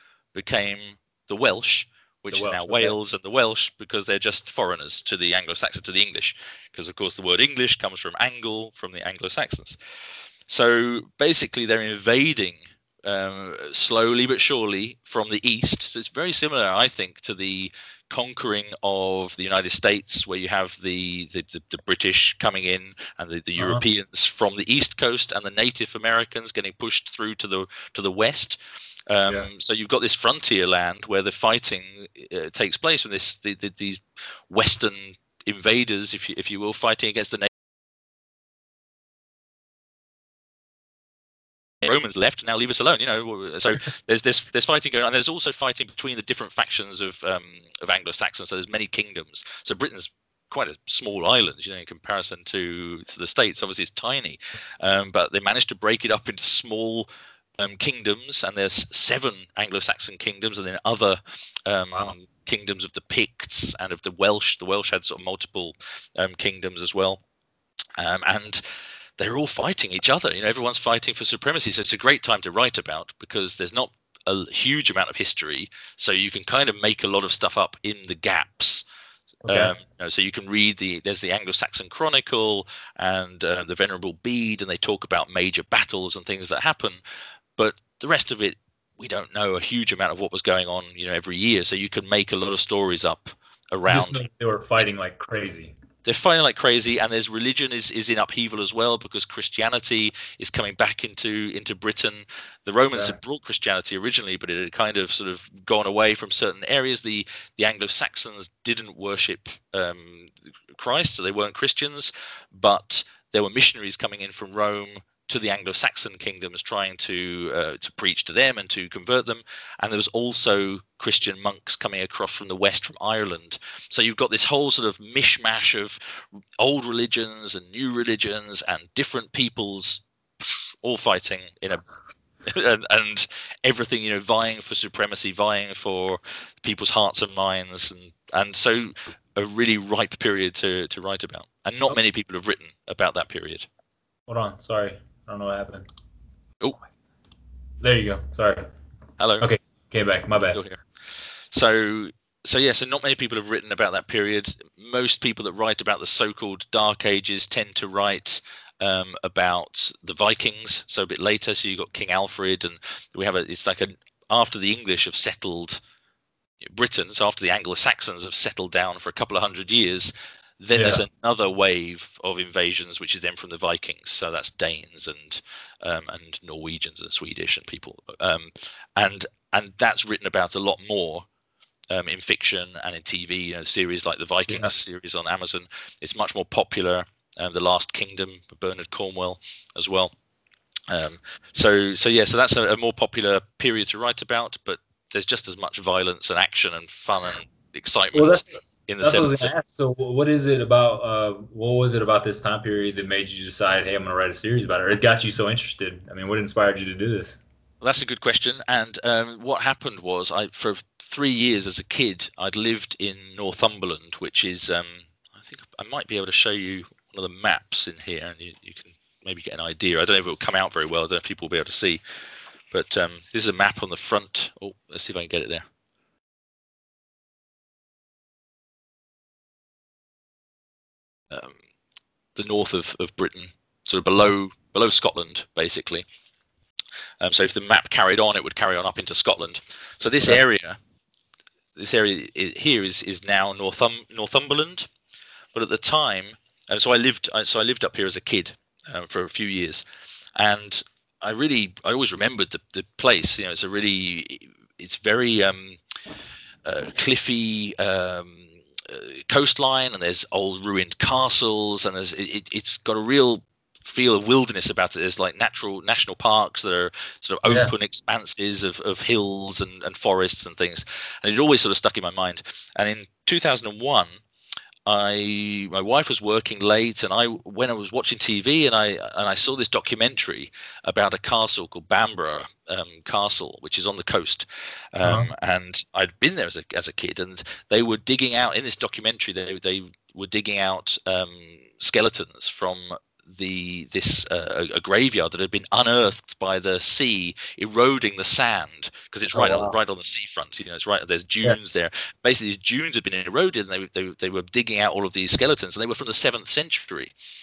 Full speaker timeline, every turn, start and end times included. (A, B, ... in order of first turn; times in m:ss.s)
0:00.3-0:09.8 A
0:02.3-0:03.0 B
0:10.5-0:28.6 A
0:23.6-0:23.8 B
0:29.1-0:37.5 A
0:41.8-1:07.2 A
1:08.0-1:08.6 A
1:09.2-1:18.8 A
1:19.5-1:19.7 B
1:19.5-1:27.0 A
1:27.6-1:34.2 A
1:33.9-1:35.7 B
1:36.0-2:11.8 A
2:12.5-2:23.7 A
2:24.3-2:25.8 B
2:27.8-2:28.6 B
2:29.2-2:29.5 A
2:29.4-2:30.6 B
2:30.5-2:30.8 A
2:31.5-2:45.8 A
2:46.6-3:01.3 A
2:50.8-2:51.0 B
3:01.9-3:10.1 A
3:10.9-3:19.5 A
3:18.1-3:18.5 B
3:19.0-3:27.4 B
3:27.8-3:42.0 A
3:42.7-3:45.6 A
3:51.3-3:51.6 A
3:52.4-3:56.0 A
3:57.2-4:00.8 A
4:01.8-4:04.9 A
4:05.5-4:09.8 A
4:10.4-4:15.8 A
4:16.6-4:34.2 A
4:27.5-4:27.7 B
4:34.9-5:07.1 A
4:45.0-4:45.3 B
4:59.3-4:59.8 B